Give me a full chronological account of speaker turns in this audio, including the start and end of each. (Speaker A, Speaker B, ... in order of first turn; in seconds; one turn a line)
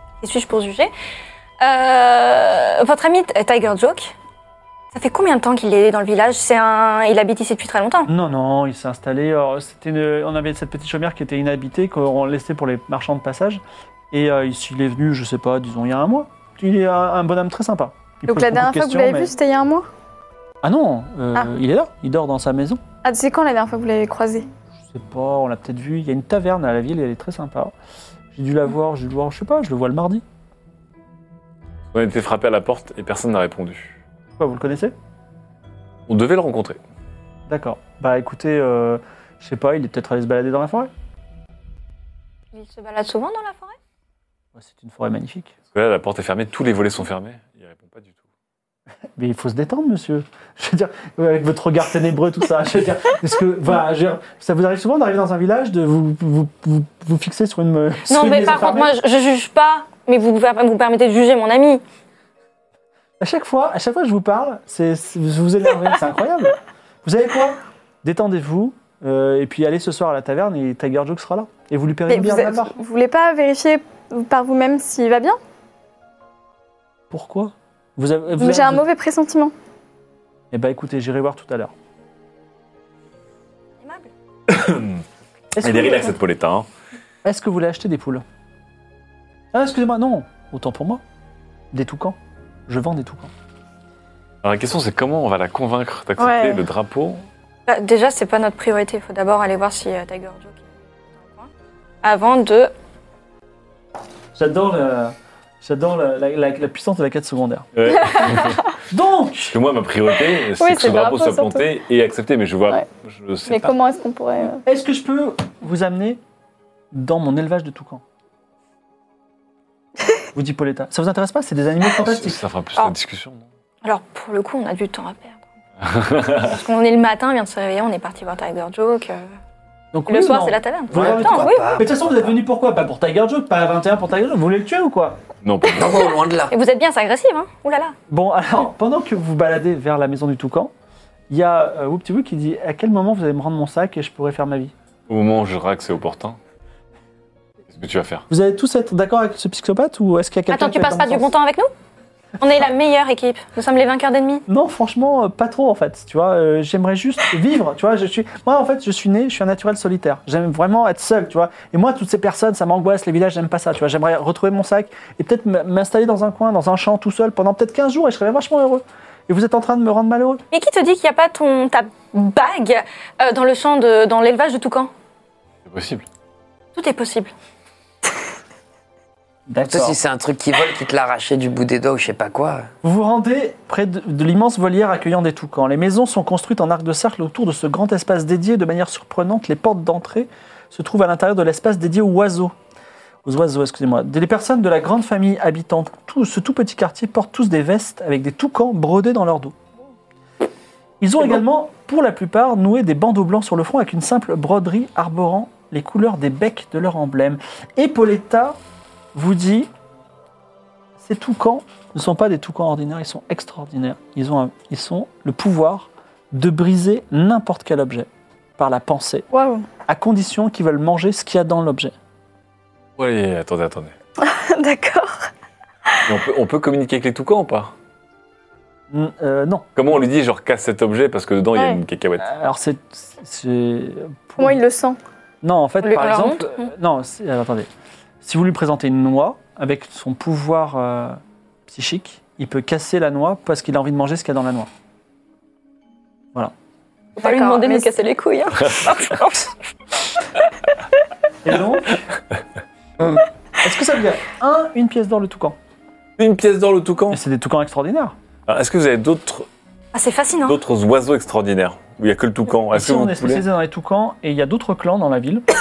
Speaker A: 0.2-0.9
Speaker A: 1.6-4.2
Speaker A: 4.9-8.1
Speaker B: 8.1-19.3
Speaker C: 18.3-19.9
Speaker B: 20.6-22.8
Speaker C: 23.0-24.5
Speaker B: 24.9-27.7
Speaker B: 28.3-30.2
Speaker D: 31.9-34.0
Speaker B: 34.4-34.9
Speaker D: 36.1-36.8
Speaker B: 37.5-40.9
Speaker A: 42.5-43.8
Speaker B: 44.6-45.5
Speaker D: 45.7-48.2
Speaker B: 49.2-58.9
Speaker A: 58.1-61.8
Speaker B: 63.2-72.8
Speaker C: 72.1-75.4
Speaker B: 77.1-78.8
Speaker C: 78.4-79.5
Speaker B: 80.5-81.7
Speaker A: 83.8-84.1
Speaker D: 84.5-85.0
Speaker B: 85.5-86.1
Speaker D: 85.6-86.7
Speaker B: 87.2-88.2
Speaker B: 89.5-91.0
Speaker B: 91.7-92.2
Speaker B: 92.7-93.3
Speaker D: 94.4-97.2
Speaker C: 96.2-96.6
Speaker A: 97.7-101.5
Speaker A: 102.0-102.7
Speaker B: 104.3-107.7
Speaker D: 107.8-108.7
Speaker B: 108.9-109.5
Speaker D: 109.5-113.7
Speaker C: 110.6-111.7
Speaker C: 113.5-114.6
Speaker B: 114.7-116.2
Speaker B: 116.9-118.0
Speaker B: 120.3-122.4
Speaker D: 121.9-123.5
Speaker A: 123.8-125.5
Speaker D: 125.8-126.6
Speaker A: 126.4-129.3
Speaker B: 129.9-135.2
Speaker A: 130.1-131.8
Speaker E: 130.9-132.4
Speaker D: 135.4-136.1
Speaker E: 135.7-136.5
Speaker A: 136.5-138.0
Speaker B: 138.1-140.7
Speaker B: 141.3-144.7
Speaker D: 145.1-146.4
Speaker D: 147.7-148.3
Speaker B: 148.3-151.3
Speaker A: 150.5-151.7
Speaker A: 152.4-154.4
Speaker B: 154.5-170.4
Speaker A: 170.5-174.9
Speaker D: 175.7-176.1
Speaker A: 176.8-177.3
Speaker B: 179.5-180.0
Speaker E: 179.7-182.7
Speaker B: 182.8-192.5
Speaker B: 193.2-199.6
Speaker B: 201.0-208.6
Speaker B: 209.1-209.7
Speaker B: 211.0-219.3
Speaker C: 219.3-219.7
Speaker B: 219.9-221.9
Speaker D: 223.0-223.9
Speaker C: 224.2-225.3
Speaker D: 226.1-227.7
Speaker B: 228.9-229.7
Speaker D: 229.8-232.3
Speaker C: 231.5-231.8
Speaker B: 232.2-234.6
Speaker C: 234.4-235.0
Speaker B: 235.4-237.7
Speaker A: 235.8-236.7
Speaker B: 238.2-244.7
Speaker A: 247.2-249.5
Speaker C: 247.2-247.9
Speaker B: 251.4-252.0
Speaker B: 253.6-255.6
Speaker D: 256.2-257.2
Speaker B: 257.1-258.1
Speaker D: 258.5-259.5
Speaker A: 259.9-260.6
Speaker D: 260.5-263.4
Speaker B: 262.7-265.5